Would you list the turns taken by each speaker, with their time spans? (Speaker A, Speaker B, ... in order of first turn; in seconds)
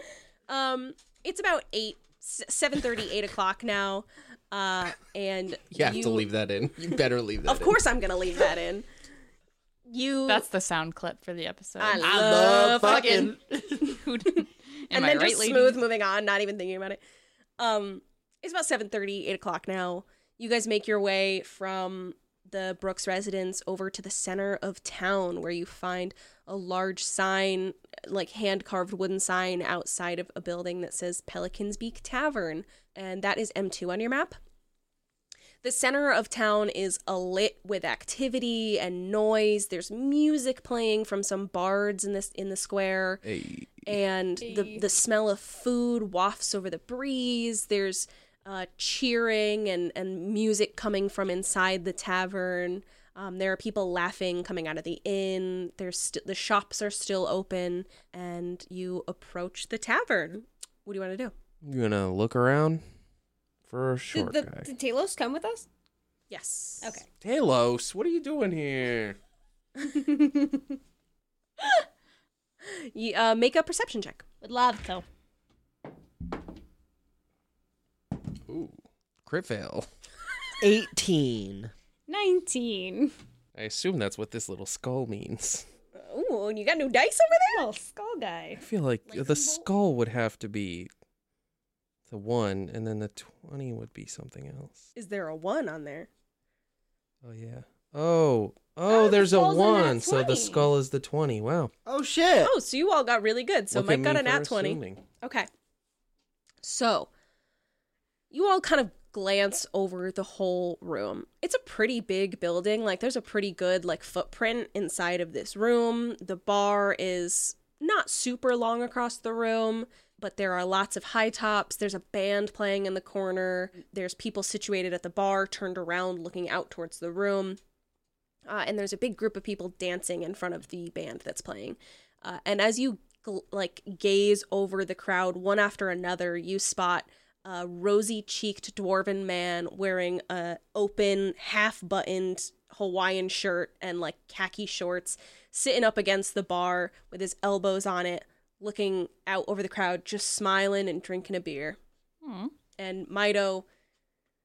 Speaker A: 0.5-6.3, 7.4-8.8, 9.9-10.4, 11.8-14.0, 14.9-17.0, 17.6-34.4, 35.6-43.2, 43.8-61.3, 66.3-67.0, 69.8-70.2, 72.6-74.2, 85.9-87.7, 89.0-89.7, 95.0-96.1, 102.4-105.5, 106.6-107.1, 108.3-127.6, 128.5-151.8, 152.8-153.7
Speaker B: 5.7-7.8, 43.2-43.8, 61.6-62.8, 63.7-64.7, 67.2-69.2, 78.5-79.9, 83.5-85.6, 88.6-90.9, 92.1-94.9, 97.2-101.7, 103.7-105.0
Speaker C: 10.3-15.8, 152.2-152.5
Speaker D: 12.0-13.9, 80.6-81.7, 101.8-102.5
Speaker E: 44.4-44.8, 64.1-65.7, 74.4-75.0, 82.1-83.1, 87.5-88.6, 98.9-100.7